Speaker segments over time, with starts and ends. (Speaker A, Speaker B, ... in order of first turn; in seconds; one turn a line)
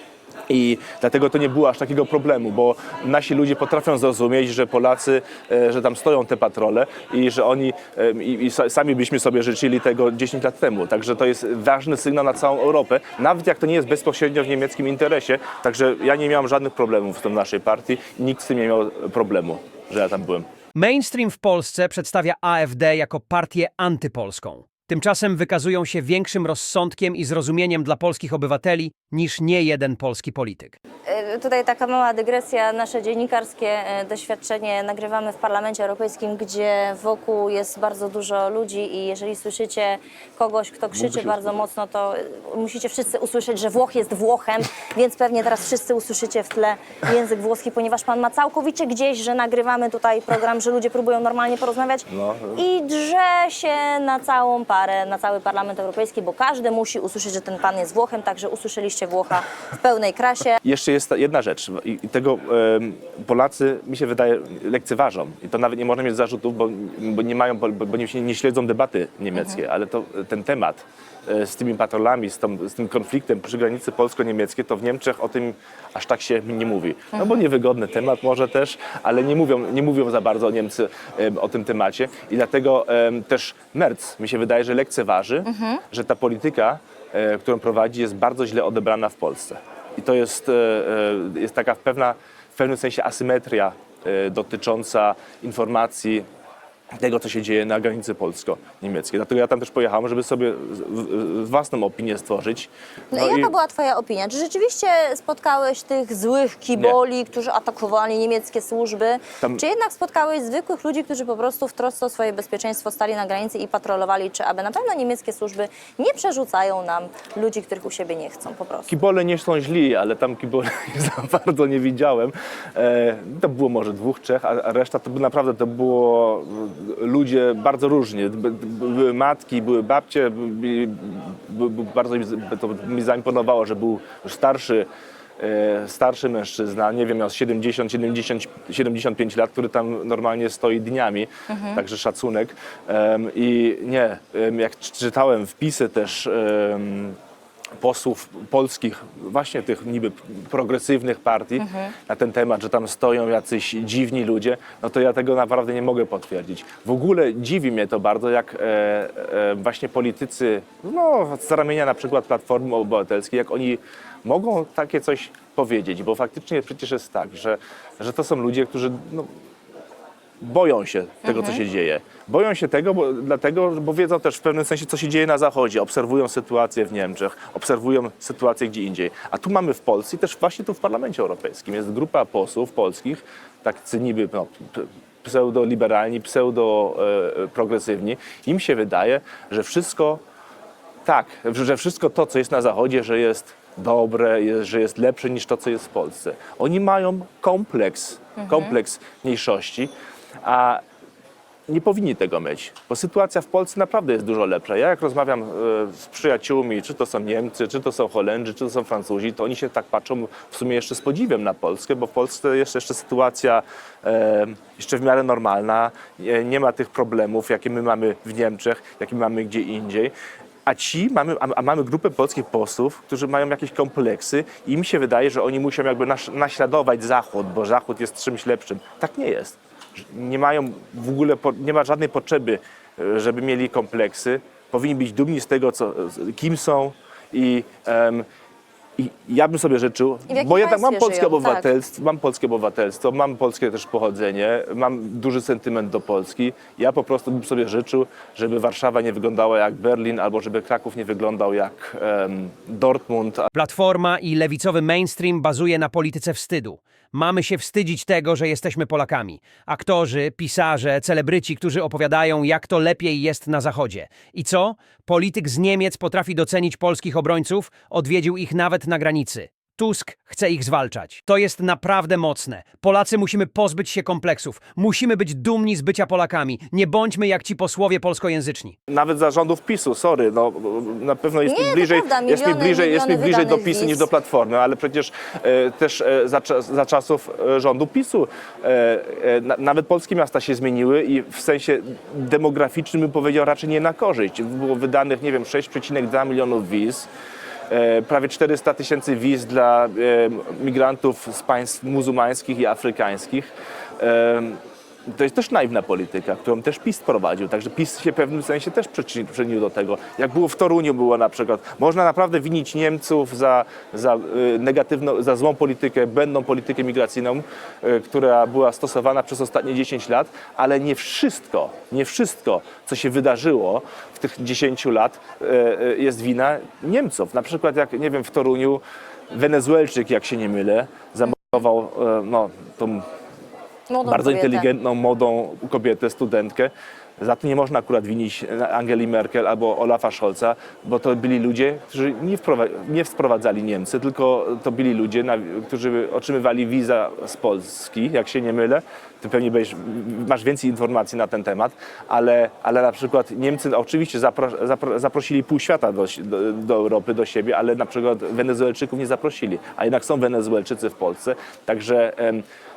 Speaker A: 0.5-20.4
Speaker B: 20.7-30.8
Speaker C: 31.1-60.6
Speaker A: 41.0-41.6
Speaker A: 52.1-52.6
Speaker A: 60.6-96.2
Speaker C: 69.3-69.6
Speaker C: 77.1-77.4
Speaker C: 85.5-85.8
Speaker A: 97.0-103.5
Speaker C: 103.1-118.9
Speaker A: 118.9-134.9
Speaker A: 135.4-147.2
Speaker C: 141.5-141.8
Speaker A: 147.8-169.3
Speaker C: 151.6-151.9
Speaker A: 170.4-190.2
Speaker C: 171.2-171.6
Speaker A: 191.0-199.9
Speaker C: 198.4-198.8
Speaker A: 200.4-200.8
Speaker A: 201.7-220.1
Speaker A: 220.7-229.6
Speaker A: 230.1-238.2
Speaker A: 239.0-253.5
Speaker C: 240.3-241.7
Speaker B: 253.5-278.8
Speaker A: 278.9-297.1
Speaker C: 281.4-284.1
Speaker A: 297.7-333.0
Speaker C: 333.9-334.7
Speaker A: 334.0-362.4